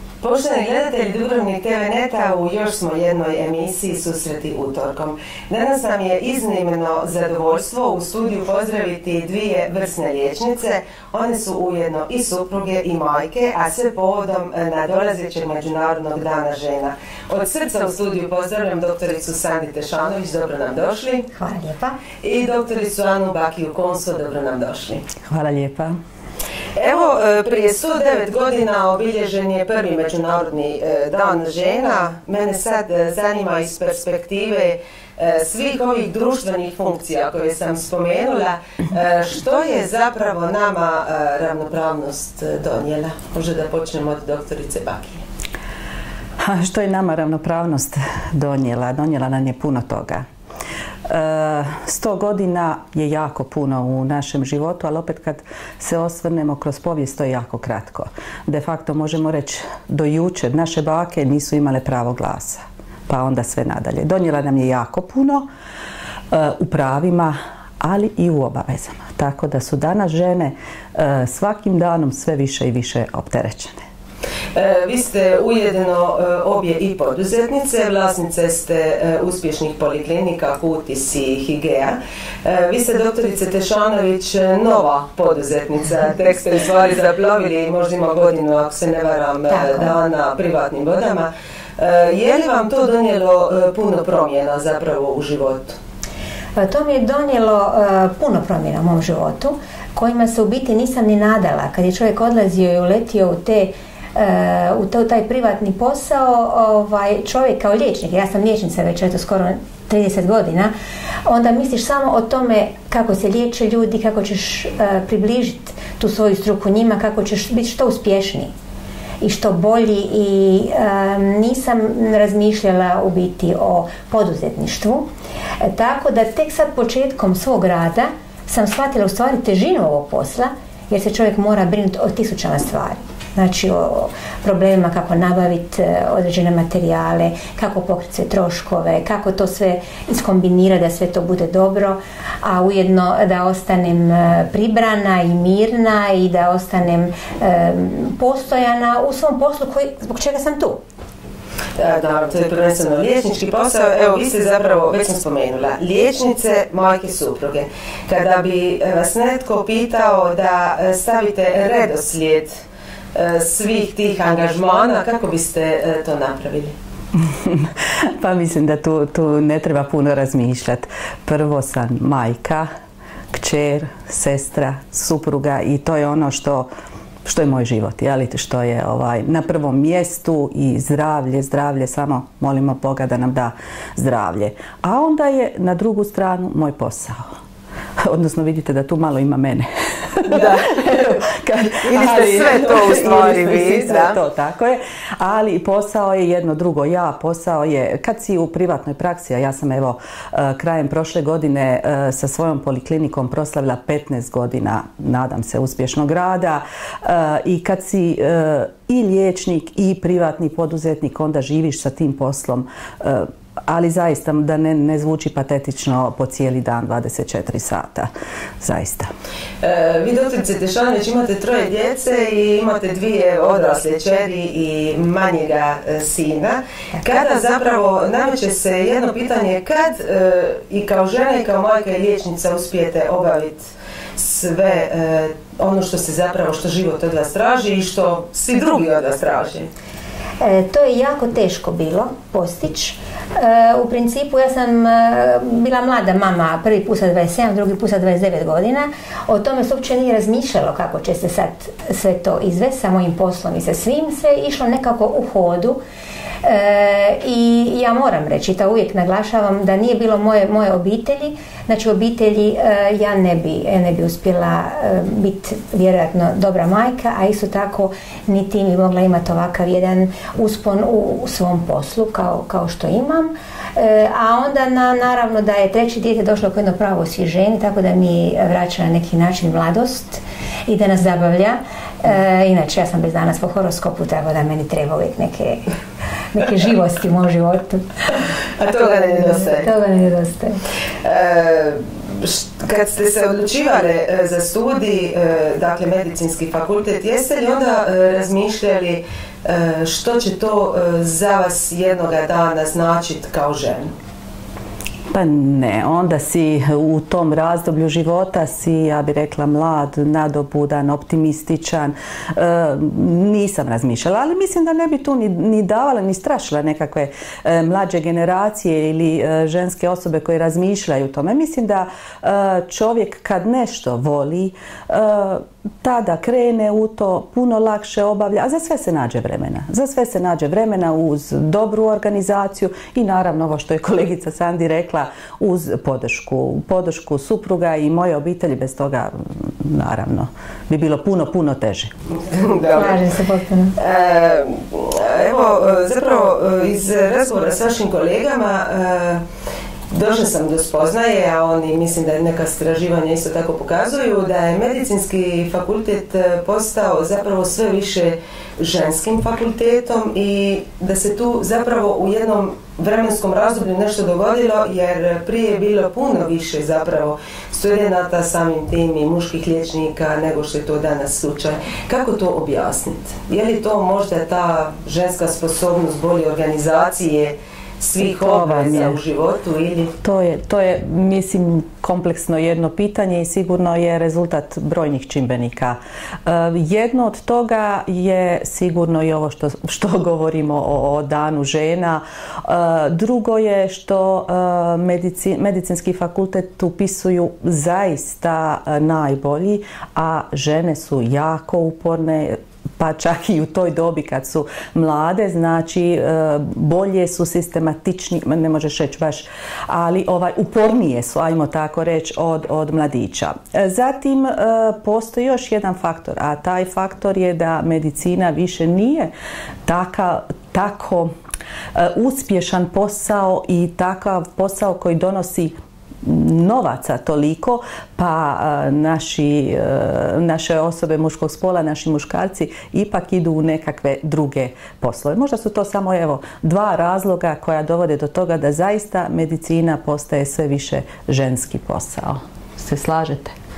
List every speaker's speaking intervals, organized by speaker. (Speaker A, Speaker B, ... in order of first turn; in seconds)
Speaker A: 0.2-21.3, 22.2-25.0, 26.8-45.2, 74.5-95.8, 151.8-162.5, 163.1-166.7, 190.3-191.1, 191.8-194.2, 219.6-233.6, 234.2-239.7, 288.6-289.7, 291.0-303.9, 342.1-343.0, 343.8-349.2, 349.9-379.9
Speaker B: 21.3-22.0, 89.5-89.9, 96.6-110.7, 111.3-118.5, 119.2-125.1, 125.6-150.8, 240.4-255.8, 256.4-285.7, 286.3-287.9, 289.6-290.6, 342.7-343.8
Speaker C: 25.3-26.0, 46.4-50.2, 51.1-65.5, 66.3-73.8, 167.3-167.7, 168.2-172.7, 173.3-176.7, 177.2-187.3, 188.0-219.1, 305.1-341.9, 378.1-379.0, 380.0-419.1, 419.7-421.1, 421.8-443.4